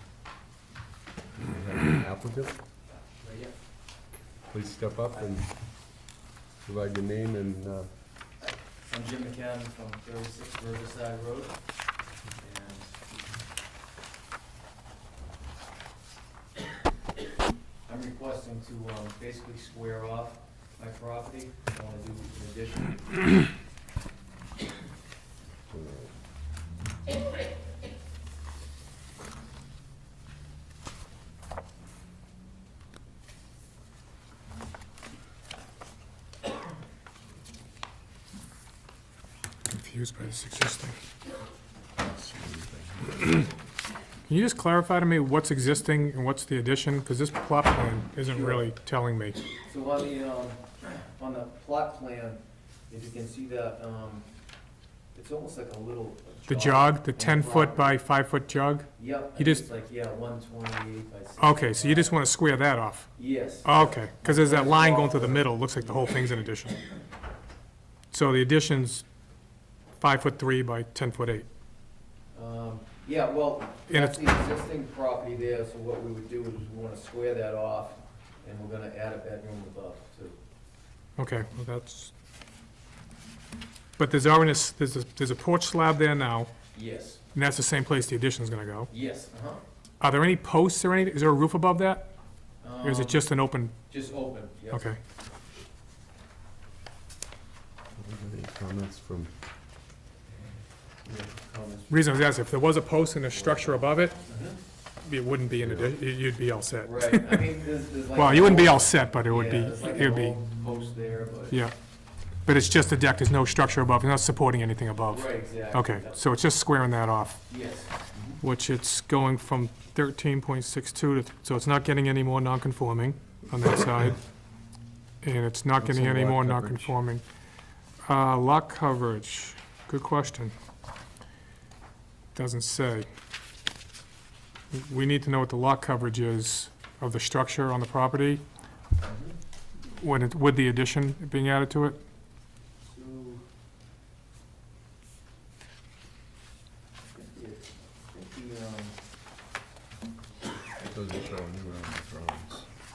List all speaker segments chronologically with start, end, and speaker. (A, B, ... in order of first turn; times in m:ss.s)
0:01.4-0:02.6 A
0:03.2-0:03.6 B
0:04.5-0:05.5 A
0:05.1-0:05.4 B
0:06.6-0:07.9 A
0:08.4-0:11.6 B
0:12.4-0:13.0 B
0:17.9-0:23.2 B
0:25.7-0:26.1 A
0:39.7-0:41.0 C
0:42.0-0:43.4 A
0:44.3-0:49.4 C
0:48.3-0:48.6 B
0:49.7-0:54.2 B
0:55.1-0:58.0 B
0:56.5-0:59.6 C
0:59.0-1:02.2 B
1:01.4-1:03.1 C
1:03.2-1:05.5 B
1:03.6-1:06.8 C
1:08.1-1:09.0 C
1:10.0-1:11.5 C
1:12.3-1:20.4 B
1:13.9-1:14.2 C
1:21.2-1:22.1 C
1:24.0-1:26.5 C
1:26.7-1:27.2 B
1:27.3-1:28.9 C
1:28.9-1:29.6 B
1:30.0-1:32.1 C
1:32.6-1:33.3 B
1:32.8-1:33.7 C
1:33.9-1:34.8 B
1:34.7-1:35.0 C
1:38.0-1:39.3 A
1:41.1-1:41.9 B
1:41.9-1:44.2 C
1:44.3-1:44.6 B
1:45.0-1:47.6 C
1:45.5-1:45.9 A
1:46.8-1:51.6 B
1:48.2-1:50.4 C
1:52.4-1:57.5 C
1:55.1-1:56.2 B
1:57.5-1:58.4 B
1:58.4-2:04.2 C
2:05.2-2:07.2 C
2:05.8-2:07.0 A
2:08.0-2:10.5 C
2:12.4-2:13.1 C
2:14.7-2:18.4 C
2:19.0-2:19.4 B
2:19.9-2:22.0 C
2:22.9-2:23.4 B
2:27.1-2:29.0 B
2:30.8-2:32.7 A